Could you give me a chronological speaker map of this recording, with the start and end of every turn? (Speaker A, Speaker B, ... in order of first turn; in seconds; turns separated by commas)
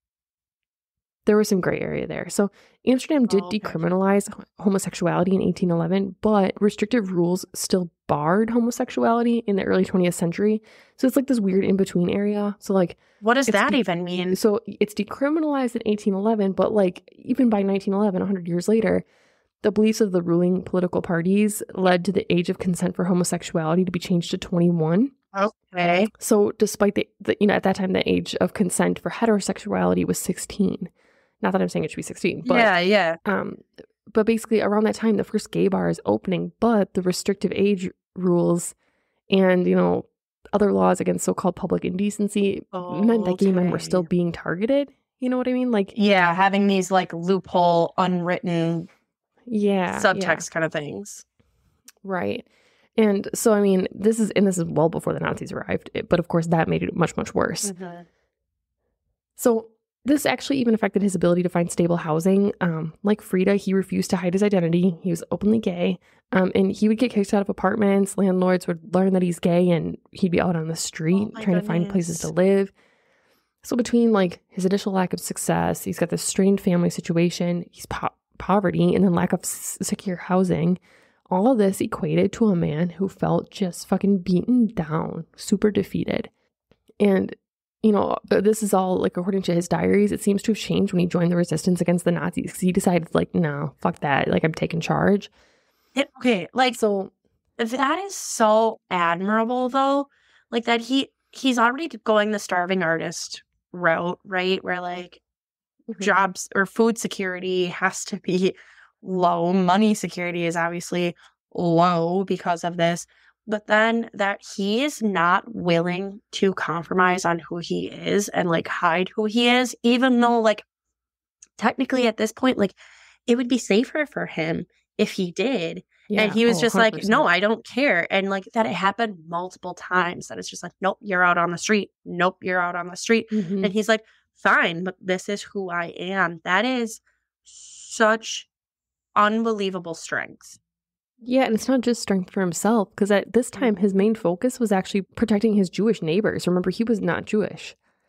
Speaker A: 1.2-13.8, Speaker B: 3.3-3.8, Speaker B: 13.2-14.4, Speaker A: 14.3-19.0, Speaker A: 19.6-25.1, Speaker B: 25.3-26.1, Speaker A: 26.1-32.7, Speaker B: 32.4-33.2, Speaker A: 33.2-38.7, Speaker A: 39.3-45.9, Speaker B: 42.7-44.1, Speaker B: 45.9-48.9, Speaker A: 49.5-50.4, Speaker B: 49.9-51.2, Speaker A: 52.0-57.7, Speaker B: 57.6-58.0, Speaker A: 59.4-72.7, Speaker B: 71.1-72.3, Speaker A: 73.6-86.3, Speaker A: 87.0-95.3, Speaker B: 96.0-96.8, Speaker A: 96.7-97.1, Speaker B: 97.6-105.2, Speaker A: 105.9-106.2, Speaker B: 106.0-120.6, Speaker B: 121.6-122.8, Speaker B: 123.3-138.5, Speaker A: 126.1-127.2, Speaker A: 133.3-133.7, Speaker B: 139.2-140.6, Speaker A: 141.2-147.8, Speaker B: 143.5-143.8